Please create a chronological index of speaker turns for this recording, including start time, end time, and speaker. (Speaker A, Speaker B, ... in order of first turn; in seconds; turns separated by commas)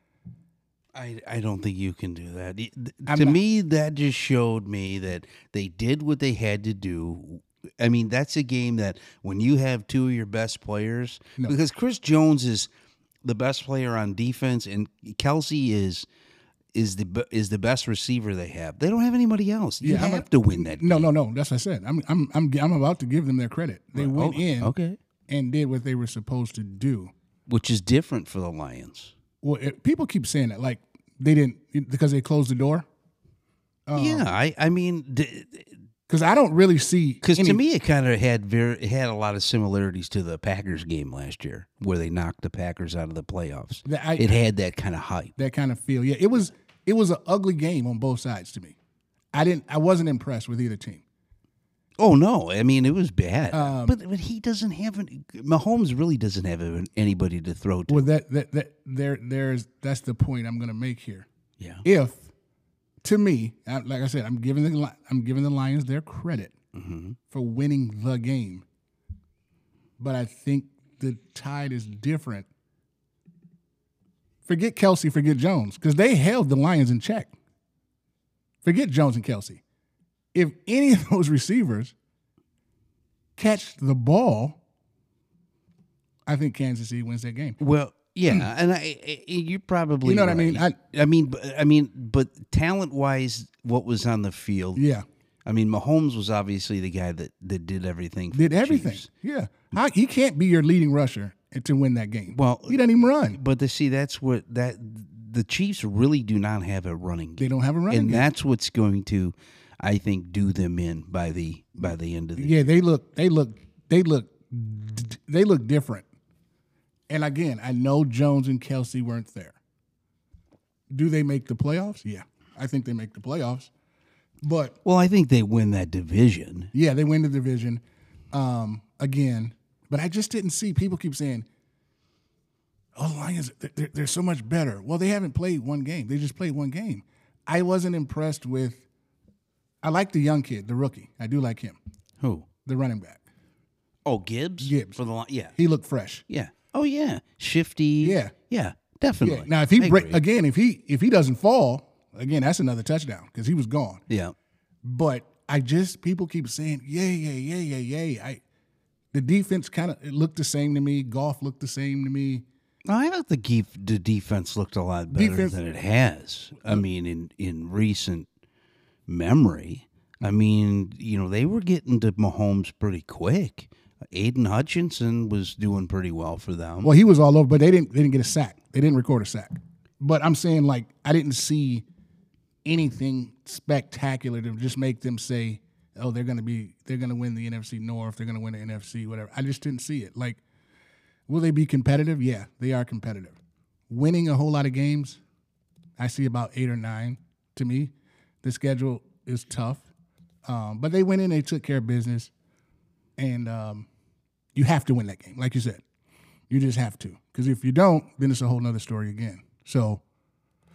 Speaker A: 0.9-12.7, Speaker B: 3.0-3.4, Speaker A: 13.2-16.1, Speaker A: 16.7-21.1, Speaker B: 19.8-24.7, Speaker A: 23.9-25.0, Speaker B: 25.3-27.1, Speaker A: 27.5-29.1, Speaker B: 29.4-32.9, Speaker B: 33.9-34.2, Speaker A: 33.9-35.7, Speaker B: 36.1-37.6, Speaker A: 37.2-45.3, Speaker B: 43.8-44.4, Speaker B: 45.4-48.8, Speaker B: 49.3-51.0, Speaker A: 52.0-58.0, Speaker B: 53.5-54.0, Speaker B: 57.9-61.3, Speaker A: 61.6-61.8, Speaker B: 61.8-62.3, Speaker B: 63.0-66.5, Speaker A: 66.7-67.2, Speaker B: 67.3-68.6, Speaker B: 70.0-72.5, Speaker B: 74.5-77.3, Speaker B: 78.6-79.6, Speaker B: 80.3-81.9, Speaker B: 83.3-84.6, Speaker B: 86.2-87.6, Speaker A: 87.6-94.8, Speaker B: 90.0-90.8, Speaker B: 94.8-95.0, Speaker A: 95.5-99.1, Speaker B: 98.3-103.4, Speaker A: 102.3-112.5, Speaker B: 107.4-108.3, Speaker B: 112.4-116.0, Speaker B: 117.1-119.6, Speaker B: 120.9-123.7, Speaker B: 124.4-124.8, Speaker A: 124.8-126.7, Speaker B: 126.7-131.4, Speaker B: 132.9-138.8, Speaker B: 139.8-141.8, Speaker A: 142.2-142.5, Speaker B: 142.6-143.2, Speaker A: 144.1-145.5, Speaker B: 144.6-145.0, Speaker B: 145.5-146.2, Speaker A: 146.3-150.2, Speaker B: 148.0-148.3, Speaker B: 149.2-154.0, Speaker A: 154.1-154.3, Speaker B: 154.8-158.4, Speaker B: 159.1-162.4, Speaker A: 162.8-168.3, Speaker B: 165.1-165.5, Speaker A: 169.1-176.9, Speaker B: 176.8-181.8, Speaker B: 182.6-190.4, Speaker B: 191.3-193.4, Speaker B: 193.9-195.2, Speaker B: 196.0-199.9, Speaker B: 200.4-202.3, Speaker B: 203.2-203.9, Speaker B: 204.5-205.8, Speaker B: 206.5-210.0